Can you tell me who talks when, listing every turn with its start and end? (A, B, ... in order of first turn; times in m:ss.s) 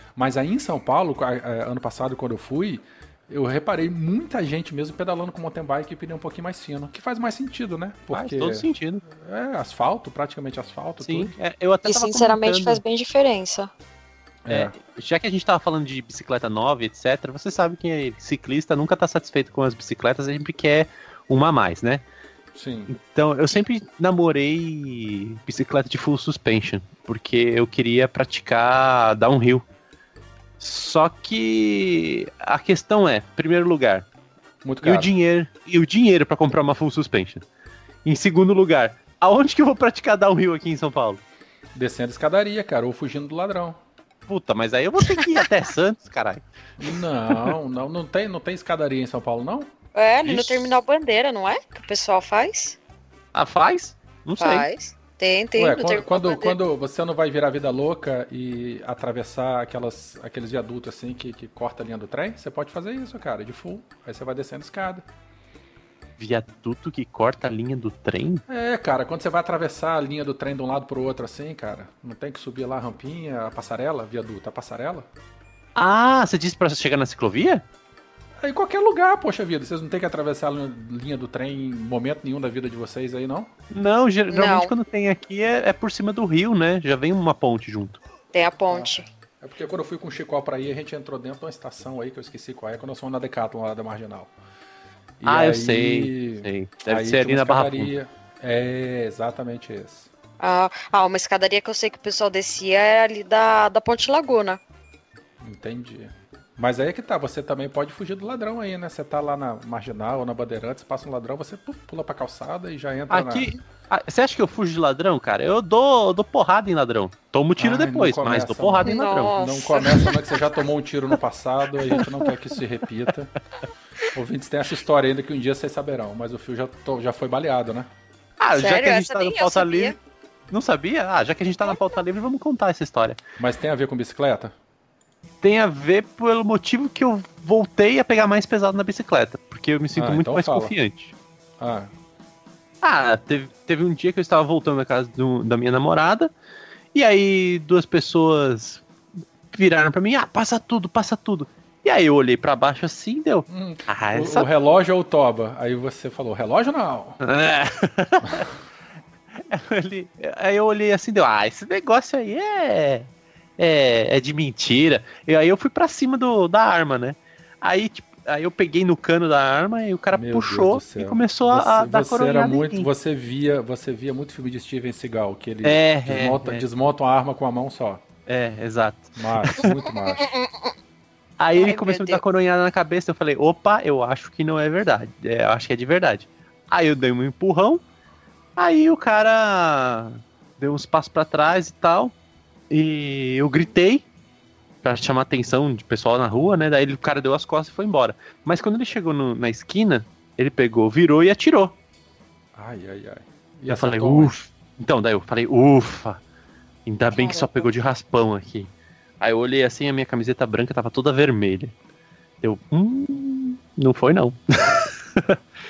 0:00.2-0:11.3 A
0:08.1-0:09.0 B
0:11.0-0:12.8 B
0:11.8-0:13.7 C
0:14.4-0:14.7 A
0:14.5-0:22.0 B
0:22.6-0:22.9 A
0:22.9-0:29.6 B
0:30.6-0:34.1 B
0:34.6-0:35.1 A
0:34.8-0:37.4 B
0:38.0-0:41.2 B
0:41.8-0:43.8 A
0:44.3-0:46.4 B
0:46.8-0:49.7 A
0:50.0-0:52.8 C
0:50.2-0:50.6 A
0:53.3-0:54.7 B
0:54.4-0:56.6 C
0:55.6-1:05.0 A
1:06.2-1:08.4 B
1:08.5-1:15.1 A
1:15.8-1:17.6 B
1:18.4-1:23.5 A
1:23.7-1:28.0 B
1:24.3-1:24.7 C
1:28.3-1:29.1 C
1:29.4-1:34.3 A
1:35.2-1:40.1 A
1:35.2-1:37.9 B
1:40.4-1:44.6 C
1:45.4-1:53.5 A
1:53.1-1:59.4 B
1:57.6-2:03.3 A
1:58.8-2:00.4 C
2:01.9-2:02.3 B
2:04.1-2:07.9 A
2:08.4-2:10.0 B
2:08.6-2:10.0 C
2:10.5-2:13.2 B
2:13.4-2:14.5 A
2:15.4-2:21.1 B
2:20.0-2:20.7 A
2:21.6-2:21.9 A
2:22.8-2:26.3 B
2:26.9-2:28.8 B
2:29.5-2:34.5 B
2:33.5-2:37.2 A
2:37.2-2:38.5 B
2:39.4-2:52.9 B
2:50.1-2:58.0 A
2:55.6-2:56.6 B
2:58.3-2:59.7 B
2:59.2-3:00.3 A
3:00.2-3:00.5 C
3:01.4-3:07.8 B
3:01.6-3:02.2 C
3:08.6-3:12.1 B
3:12.7-3:14.0 B
3:14.8-3:21.7 B
3:22.6-3:24.4 A
3:23.7-3:26.2 B
3:26.9-3:31.7 B
3:27.1-3:27.7 C
3:32.4-3:35.4 B